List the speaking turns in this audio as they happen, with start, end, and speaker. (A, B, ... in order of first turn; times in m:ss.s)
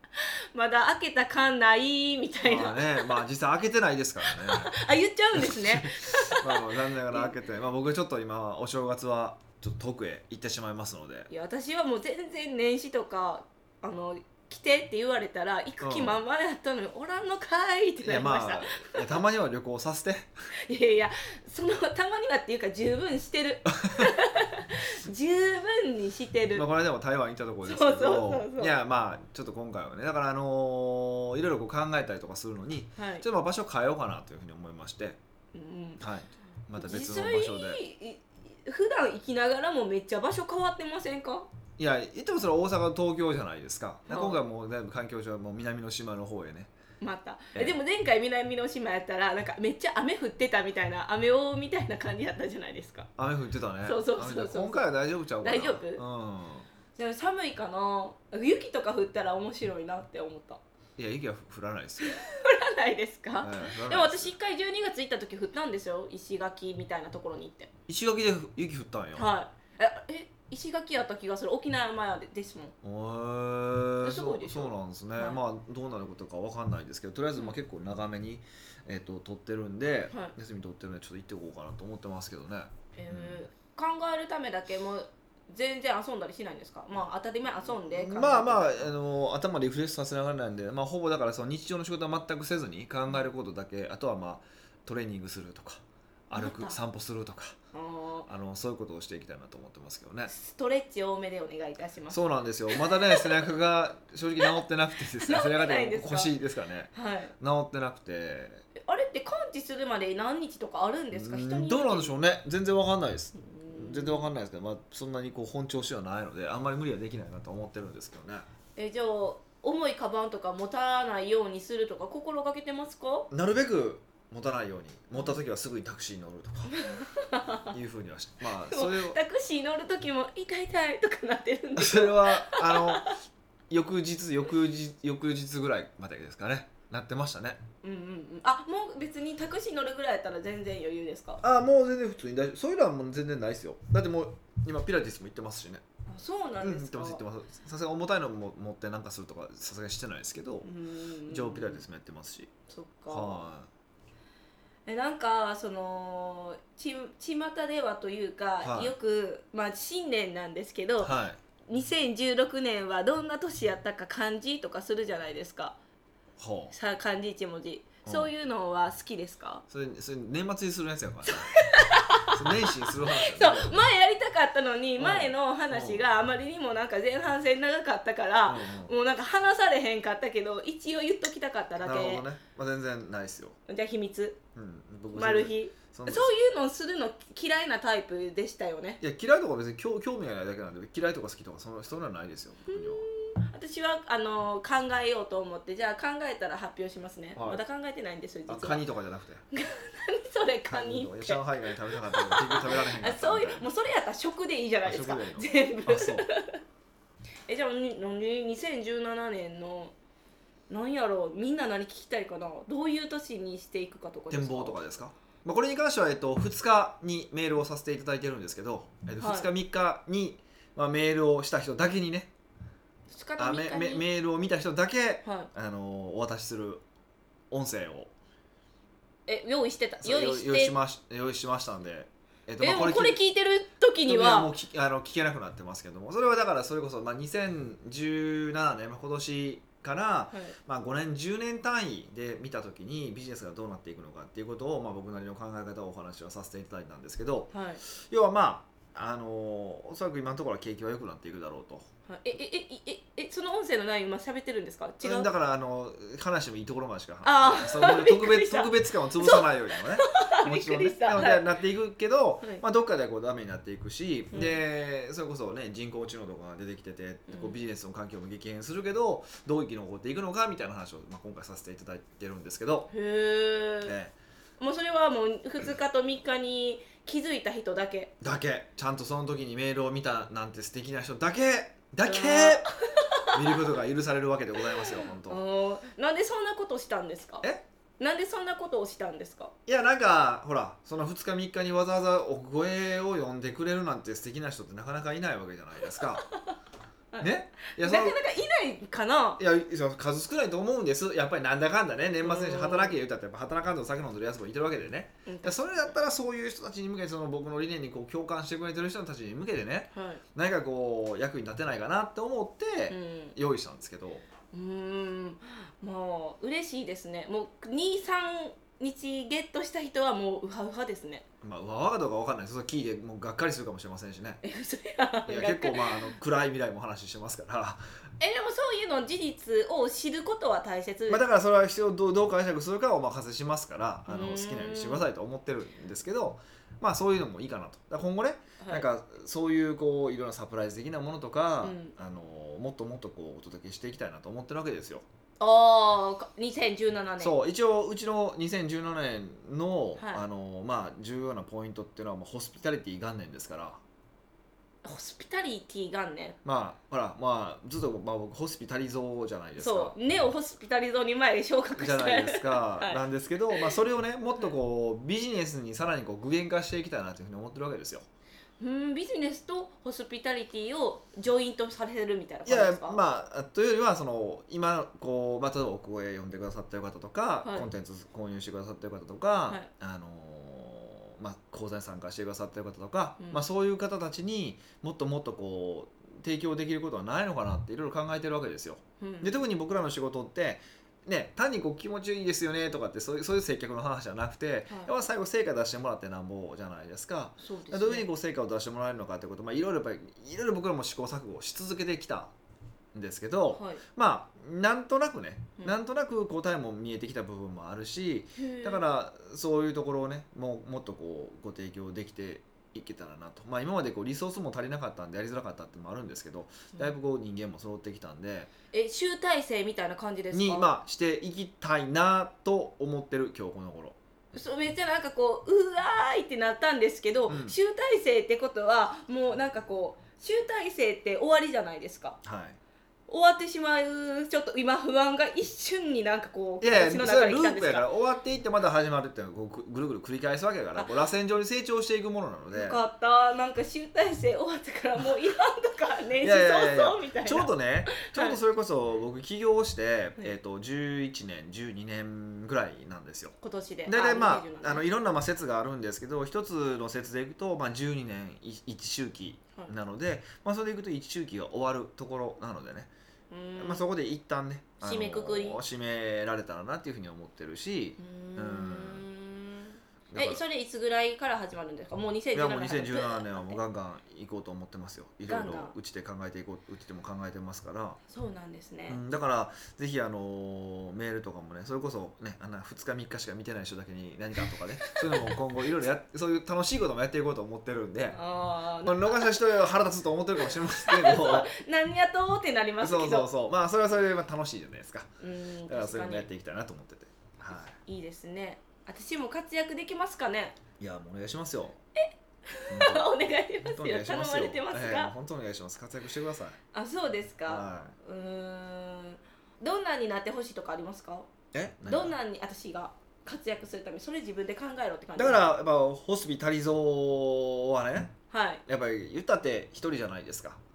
0:00.2-0:03.1 A
0:02.4-0:04.7 B
0:04.2-0:07.3 A
0:05.3-0:11.3 B
0:11.3-0:19.2 A
0:15.8-0:16.2 B
0:18.0-0:20.3 B
0:20.7-0:26.7 A
0:23.7-0:24.1 B
0:26.5-0:35.2 B
0:27.6-0:28.8 A
0:33.0-0:33.2 A
0:35.5-0:36.0 A
0:36.0-0:37.8 B
0:36.8-0:41.5 A
0:41.8-0:46.7 B
0:44.1-0:44.4 A
0:47.0-0:53.1 A
0:53.2-0:56.7 B
0:53.8-0:54.9 A
0:55.4-0:56.0 A
0:57.0-1:00.6 A
1:01.0-1:02.2 B
1:02.0-1:07.7 A
1:03.4-1:04.3 B
1:07.9-1:09.3 B
1:09.2-1:12.7 A
1:12.8-1:23.4 B
1:14.0-1:15.4 A
1:23.0-1:28.9 A
1:27.7-1:37.6 B
1:36.3-1:36.8 A
1:37.7-1:38.3 A
1:38.3-1:40.3 B
1:40.3-1:42.2 A
1:42.1-1:48.6 B
1:42.7-1:43.5 A
1:44.4-1:46.3 A
1:46.9-1:47.4 A
1:48.8-1:52.1 A
1:51.1-1:58.5 B
1:53.4-1:54.3 A
1:58.8-2:03.3 A
2:03.3-2:06.8 B
2:06.7-2:07.7 A
2:07.7-2:09.2 B
2:08.5-2:13.1 A
2:11.8-2:13.1 B
2:13.7-2:17.6 B
2:17.8-2:21.4 A
2:21.4-2:25.8 B
2:26.1-2:27.2 A
2:26.6-2:30.7 B
2:30.6-2:31.8 A
2:31.3-2:32.5 B
2:32.7-2:33.4 A
2:33.1-2:33.7 B
2:34.9-2:41.2 A
2:38.6-2:38.9 B
2:41.0-2:41.4 B
2:41.7-2:45.8 A
2:46.4-2:46.8 B
2:46.7-2:49.6 A
2:48.0-2:48.3 B
2:49.7-2:51.5 B
2:51.3-3:02.2 A
2:52.3-2:53.8 B
2:55.0-2:56.0 B
2:58.5-2:58.9 B
3:01.8-3:03.6 B
3:03.7-3:04.4 A
3:04.6-3:06.3 B
3:05.1-3:09.0 A
3:09.0-3:13.1 B
3:12.7-3:18.8 A
3:17.4-3:17.6 B
3:18.5-3:19.4 B
3:19.5-3:21.4 A
3:20.7-3:23.7 B
3:22.0-3:26.6 A
3:24.8-3:26.3 B
3:27.5-3:29.9 A
3:30.7-3:34.8 A
3:34.3-3:42.3 B
3:39.2-3:39.5 A
3:43.1-3:44.0 A
3:43.4-3:46.8 B
3:45.2-3:45.5 A
3:47.5-3:48.1 B
3:49.3-3:50.8 A
3:50.0-3:53.2 B
3:52.6-3:54.5 A
3:54.1-4:11.9 B
4:07.5-4:07.8 A
4:12.1-4:15.3 A
4:15.0-4:32.9 B
4:17.2-4:21.5 A
4:24.3-4:24.6 A
4:27.3-4:27.6 A
4:32.9-4:33.9 A
4:33.8-4:34.1 B
4:34.6-4:38.1 A
4:38.2-4:45.4 B
4:42.0-4:43.6 A
4:44.7-4:47.5 A
4:48.0-4:49.5 A
4:49.7-4:56.3 B
4:57.1-4:59.4 A
4:57.2-4:58.2 B
4:59.4-5:14.2 B
5:02.2-5:03.0 A
5:05.3-5:06.0 A
5:09.9-5:10.2 A
5:12.9-5:13.4 A
5:14.5-5:21.2 A
5:21.4-5:24.4 B
5:24.4-5:26.1 A
5:25.3-5:27.8 B
5:28.2-5:31.2 A
5:31.1-5:45.0 B
5:34.1-5:35.0 A
5:38.6-5:38.9 A
5:41.6-5:41.9 A
5:45.4-5:47.3 A
5:47.2-5:53.8 B
5:50.0-5:50.2 A
5:54.8-5:56.4 A
5:56.4-6:00.0 B
5:59.6-6:03.0 A
6:01.8-6:08.1 B
6:08.6-6:13.0 A
6:12.5-6:42.3 B
6:17.4-6:17.7 A
6:29.0-6:29.4 A
6:37.4-6:38.1 A
6:42.9-6:58.5 B
6:43.5-6:43.8 A
6:48.4-6:48.8 A
6:58.7-7:00.7 A
7:00.3-7:04.0 B
7:04.3-7:12.2 A
7:07.3-7:07.6 B
7:12.2-7:12.6 B
7:13.1-7:17.9 A
7:16.6-7:22.8 B
7:22.5-7:27.5 A
7:26.2-7:42.9 B
7:28.1-7:28.4 A
7:33.4-7:34.9 A
7:43.3-7:43.8 A
7:43.6-7:49.0 B
7:44.8-7:45.6 A
7:48.0-7:53.6 A
7:50.1-7:50.4 B
7:52.3-7:58.0 B
7:55.3-7:55.7 A
7:58.1-7:59.0 A
7:58.9-8:08.2 B
8:05.0-8:05.3 A
8:08.1-8:09.4 A
8:08.8-8:11.5 B
8:10.4-8:13.3 A
8:12.8-8:15.1 B
8:15.2-8:16.3 A
8:15.7-8:17.8 B
8:17.8-8:20.6 A
8:20.8-8:21.8 B
8:22.0-8:25.1 A
8:22.7-8:23.1 B
8:23.6-8:26.6 B
8:26.7-8:31.3 A
8:27.5-8:28.0 B
8:31.5-8:32.2 B
8:31.9-8:35.4 A
8:35.2-8:40.6 B
8:38.3-8:38.6 A